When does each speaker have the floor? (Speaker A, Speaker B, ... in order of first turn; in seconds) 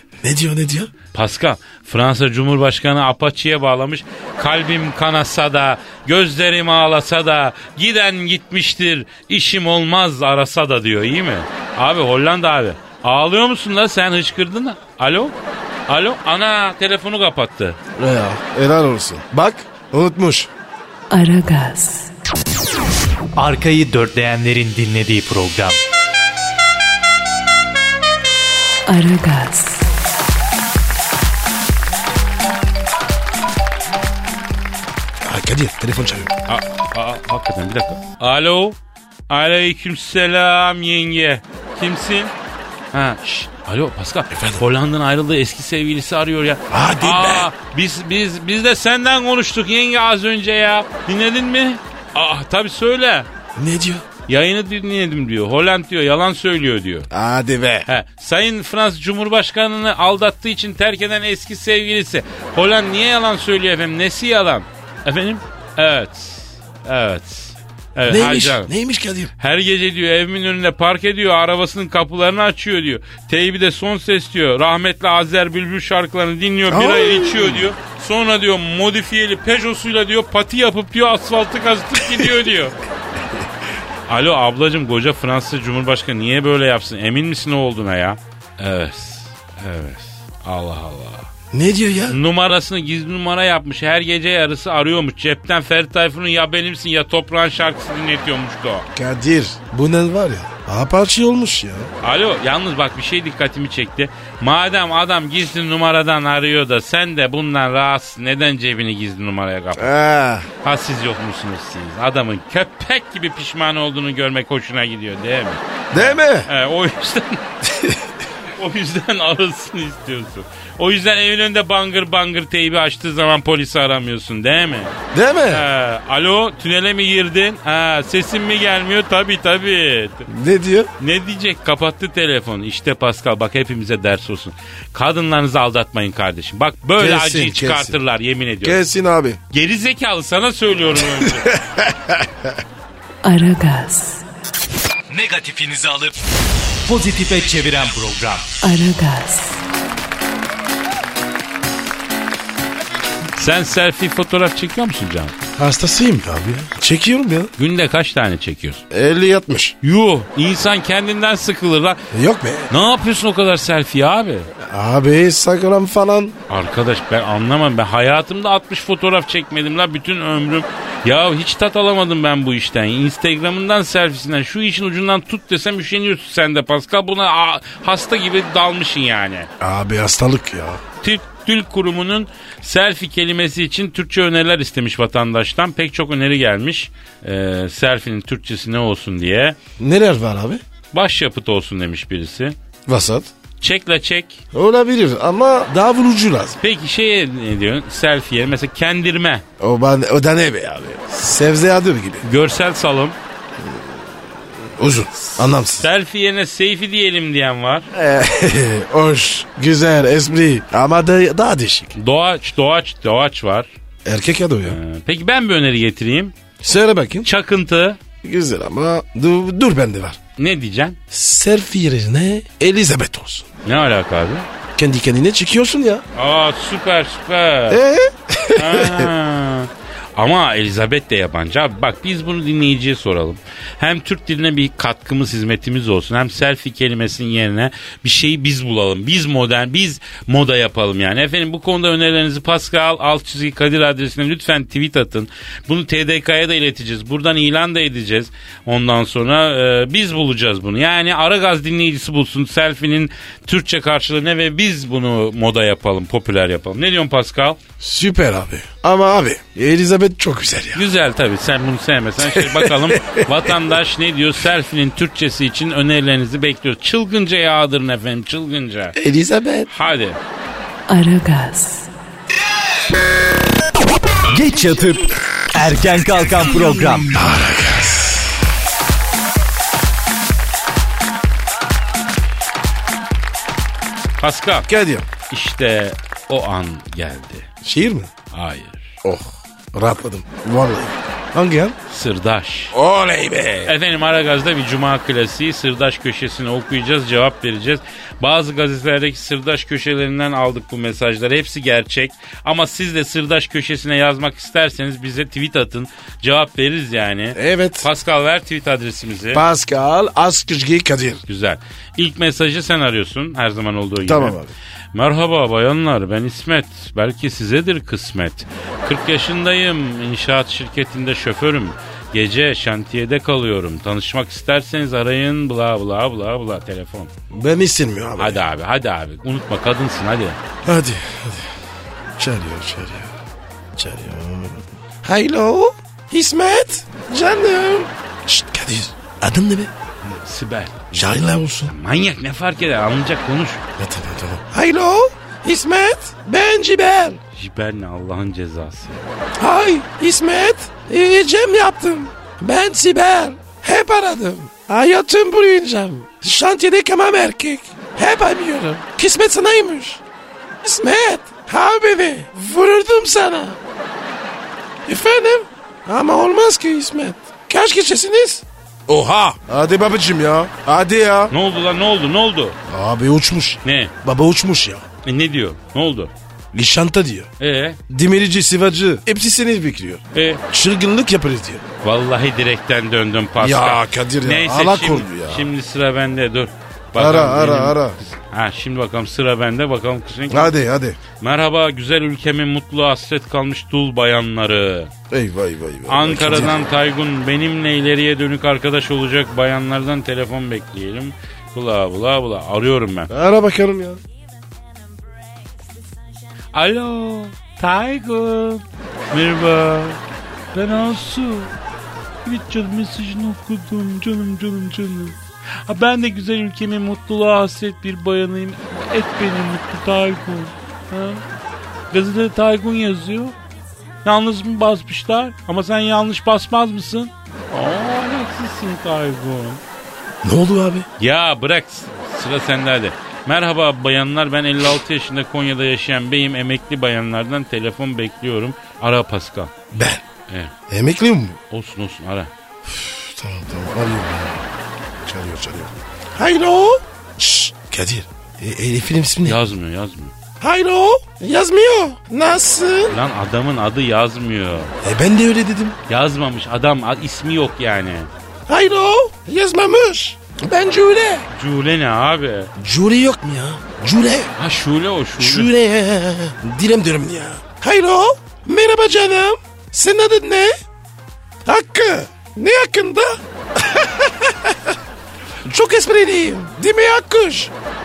Speaker A: 0.2-0.9, 18.0-20.5, 35.2-36.3, 44.3-44.6, 46.7-47.5, 53.6-54.0, 57.1-57.9, 68.1-69.3, 76.7-77.7, 91.5-92.2, 99.0-101.9, 109.8-110.5, 115.9-116.5, 117.6-118.1, 125.1-125.7, 130.3-130.9, 137.0-138.0, 138.6-139.4, 141.1-142.6, 155.6-157.5, 158.9-159.8, 162.1-162.7, 164.6-166.4, 179.6-180.8, 189.8-190.6, 192.9-193.3, 194.5-196.6, 199.6-202.2, 203.6-205.9, 207.9-211.9, 214.1-214.8, 216.6-217.3, 218.2-220.2, 221.1-223.5, 224.8-226.0, 227.7-229.1, 257.8-260.9, 262.2-263.6, 269.0-269.7, 277.1-278.3, 284.7-285.1, 287.6-288.1, 289.0-291.8, 292.7-293.7, 307.4-307.9, 309.3-311.2, 314.1-314.5, 327.3-328.4, 330.6-331.5, 332.2-333.1, 333.8-339.7, 340.9-341.7, 343.8-347.2, 349.4-360.0, 360.6-363.6, 364.9-371.3, 372.7-374.9, 376.5-377.3, 377.9-381.6, 383.4-385.5, 386.9-388.0, 390.3-391.0, 395.1-396.7, 403.1-404.0, 430.2-430.9, 439.7-440.0, 440.7-441.4, 442.7-444.4, 445.1-449.4, 450.4-453.0, 454.8-455.8, 458.5-461.3, 462.6-464.3, 465.2-470.6, 471.4-474.8, 475.4-477.5
Speaker B: 1.1-15.4, 15.9-17.8, 36.5-38.8, 39.3-42.3, 42.9-53.3, 54.3-57.1, 57.9-68.7, 69.4-82.8, 84.1-91.3, 92.1-98.9, 102.0-109.9, 110.6-117.4, 118.6-125.0, 125.5-130.3, 131.0-138.8, 139.5-141.6, 153.4-155.3, 157.6-158.8, 159.8-162.0, 162.7-164.5, 166.5-179.5, 181.0-189.6, 190.9-192.6, 193.6-194.4, 196.6-199.4, 202.2-203.2, 205.8-207.9, 212.0-213.7, 214.7-216.3, 217.2-218.0, 220.4-221.0, 223.7-224.5, 226.2-227.8, 228.6-257.6, 260.7-269.0, 269.7-270.2, 284.2-284.7, 285.3-287.5, 288.3-289.0, 291.9-292.8, 293.6-309.4, 311.3-314.4, 314.9-327.1, 328.2-330.4, 340.0-340.9, 341.7-343.6, 347.4-349.1, 371.3-372.6, 373.6-373.9, 375.0-376.1, 377.4-377.8, 380.1-380.4, 381.8-390.6, 391.2-394.9, 395.9-403.1, 406.5-410.0, 410.5-411.5, 412.2-421.2, 421.9-423.4, 424.1-429.6, 431.0-439.5, 440.3-440.5, 441.5-442.3, 449.2-450.1, 452.9-454.7, 455.9-458.1, 461.3-462.5, 464.4-465.5
Speaker C: 21.1-22.1, 28.9-29.9, 143.2-144.2, 148.6-149.6, 270.9-271.9
Speaker D: 23.4-25.8, 145.1-146.2, 146.8-148.6, 274.3-277.1